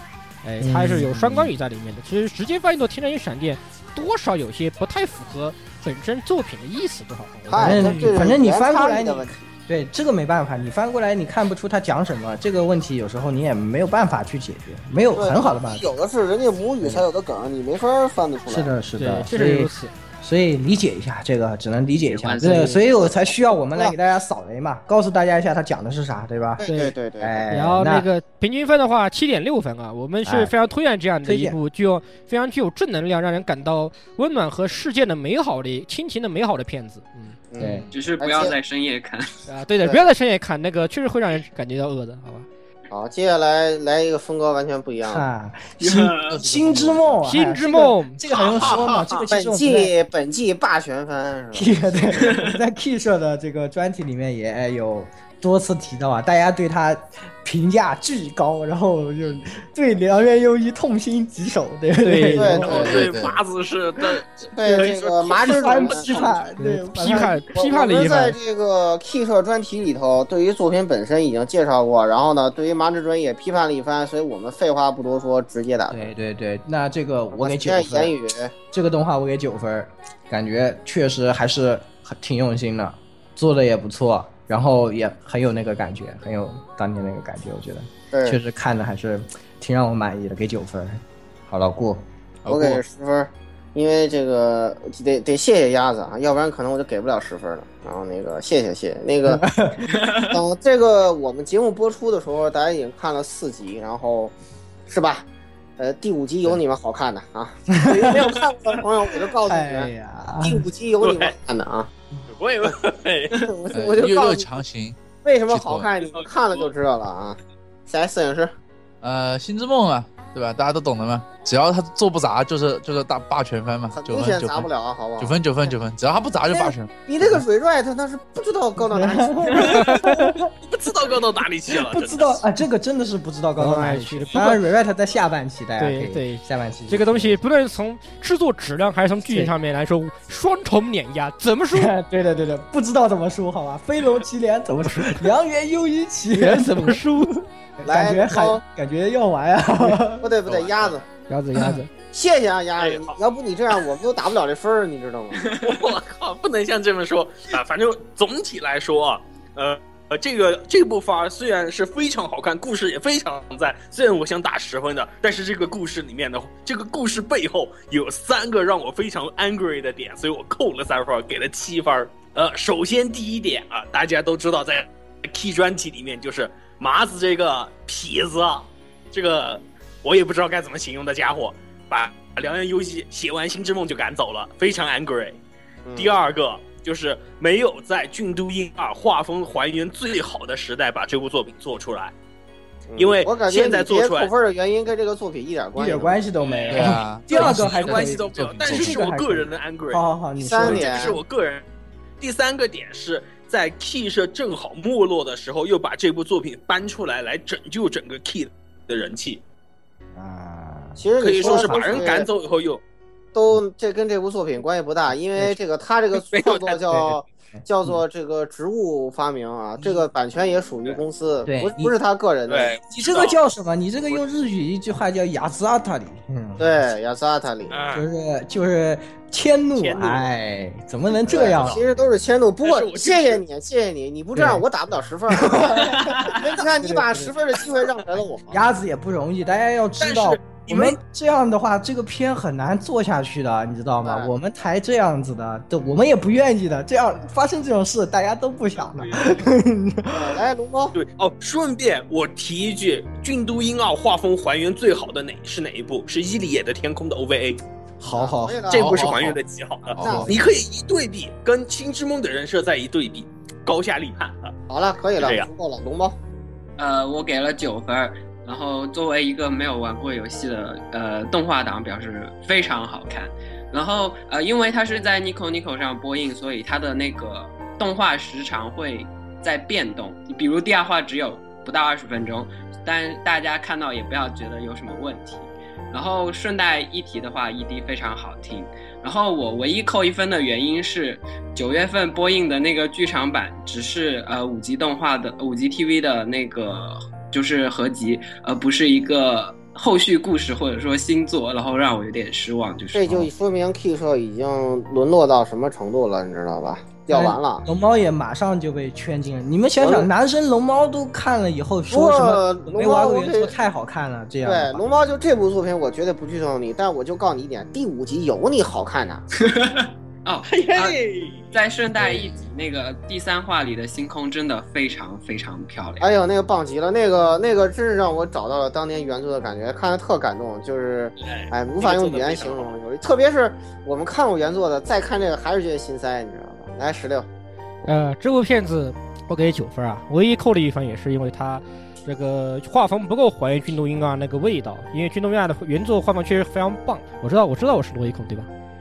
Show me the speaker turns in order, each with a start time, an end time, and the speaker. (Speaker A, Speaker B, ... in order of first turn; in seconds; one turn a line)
Speaker A: 0.4-8.2
Speaker B: 0.6-1.5
Speaker C: 7.5-9.5
Speaker B: 7.6-15.9
Speaker C: 15.2-18.7
Speaker B: 16.8-17.1
Speaker B: 18.5-26.7
Speaker A: 19.0-19.9
Speaker D: 22.1-22.9
Speaker C: 26.6-27.5
Speaker A: 26.7-26.9
Speaker B: 27.2-28.1
Speaker A: 27.5-37.4
Speaker B: 30.2-30.5
Speaker B: 31.2-31.6
Speaker C: 37.5-38.6
Speaker B: 37.6-37.9
Speaker D: 37.9-39.4
Speaker A: 39.5-42.5
Speaker C: 39.8-40.1
Speaker C: 42.9-45.2
Speaker B: 45.0-49.9
Speaker E: 46.3-47.2
Speaker A: 47.2-48.2
Speaker F: 48.3-49.3
Speaker C: 49.3-52.3
Speaker B: 51.5-63.0
Speaker A: 62.0-62.7
Speaker C: 62.4-63.1
Speaker F: 62.6-66.4
Speaker E: 62.7-63.4
Speaker C: 64.6-66.1
Speaker B: 65.4-67.4
Speaker A: 66.6-68.4
Speaker C: 67.5-76.1
Speaker B: 75.9-78.2
Speaker C: 77.4-78.5
Speaker B: 78.7-92.8
Speaker C: 88.1-88.4
Speaker C: 92.5-99.4
Speaker B: 99.3-99.9
Speaker C: 100.2-104.3
Speaker C: 104.9-105.3
Speaker C: 105.8-109.9
Speaker B: 107.7-108.2
Speaker B: 109.4-110.7
Speaker C: 110.4-111.9
Speaker F: 111.0-111.4
Speaker F: 112.3-113.5
Speaker C: 113.4-114.5
Speaker E: 113.7-115.0
Speaker C: 115.2-118.5
Speaker E: 115.5-115.9
Speaker F: 116.0-116.7
Speaker E: 119.0-126.9
Speaker C: 123.9-125.7
Speaker C: 126.5-129.8
Speaker B: 128.8-130.5
Speaker A: 129.6-130.3
Speaker F: 130.6-132.4
Speaker B: 131.7-137.4
Speaker A: 133.6-134.6
Speaker A: 135.8-141.9
Speaker B: 139.3-139.5
Speaker B: 141.7-147.2
Speaker A: 144.8-145.3
Speaker A: 146.3-147.4
Speaker B: 147.8-150.3
Speaker C: 147.8-148.6
Speaker C: 150.2-151.1
Speaker E: 150.5-150.9
Speaker A: 151.3-151.9
Speaker C: 152.1-155.6
Speaker F: 152.8-153.2
Speaker F: 155.5-185.4
Speaker C: 185.9-186.2
Speaker F: 186.0-192.1
Speaker C: 192.9-196.2
Speaker F: 193.0-194.3
Speaker B: 195.8-201.2
Speaker F: 196.5-200.0
Speaker E: 196.7-199.0
Speaker C: 200.4-201.2
Speaker F: 200.6-201.6
Speaker F: 202.2-209.4
Speaker B: 210.2-212.2
Speaker C: 211.0-212.3
Speaker F: 211.2-212.8
Speaker C: 213.3-222.8
Speaker F: 216.1-217.1
Speaker B: 221.5-221.9
Speaker F: 222.5-223.4
Speaker B: 222.9-226.8
Speaker C: 226.6-227.8
Speaker F: 227.7-228.1
Speaker B: 227.9-231.8
Speaker F: 229.8-230.3
Speaker F: 231.2-231.8
Speaker C: 231.3-238.7
Speaker F: 232.6-233.4
Speaker B: 234.3-234.6
Speaker B: 235.3-237.3
Speaker B: 238.5-250.4
Speaker F: 240.0-241.0
Speaker C: 244.0-244.3
Speaker F: 249.0-249.2
Speaker C: 250.1-251.0
Speaker F: 250.9-257.6
Speaker B: 258.0-259.4
Speaker C: 258.1-259.3
Speaker F: 258.7-264.5
Speaker E: 259.9-260.3
Speaker C: 260.0-260.4
Speaker C: 264.7-266.2
Speaker F: 265.2-265.5
Speaker D: 266.8-303.3
Speaker C: 302.9-307.7
Speaker B: 307.1-314.8
Speaker C: 309.8-310.1
Speaker C: 311.9-313.5
Speaker C: 314.4-319.2
Speaker D: 319.4-321.0
Speaker F: 320.4-321.5
Speaker D: 321.5-326.1
Speaker C: 326.0-337.3
Speaker F: 331.2-332.7
Speaker A: 337.9-348.5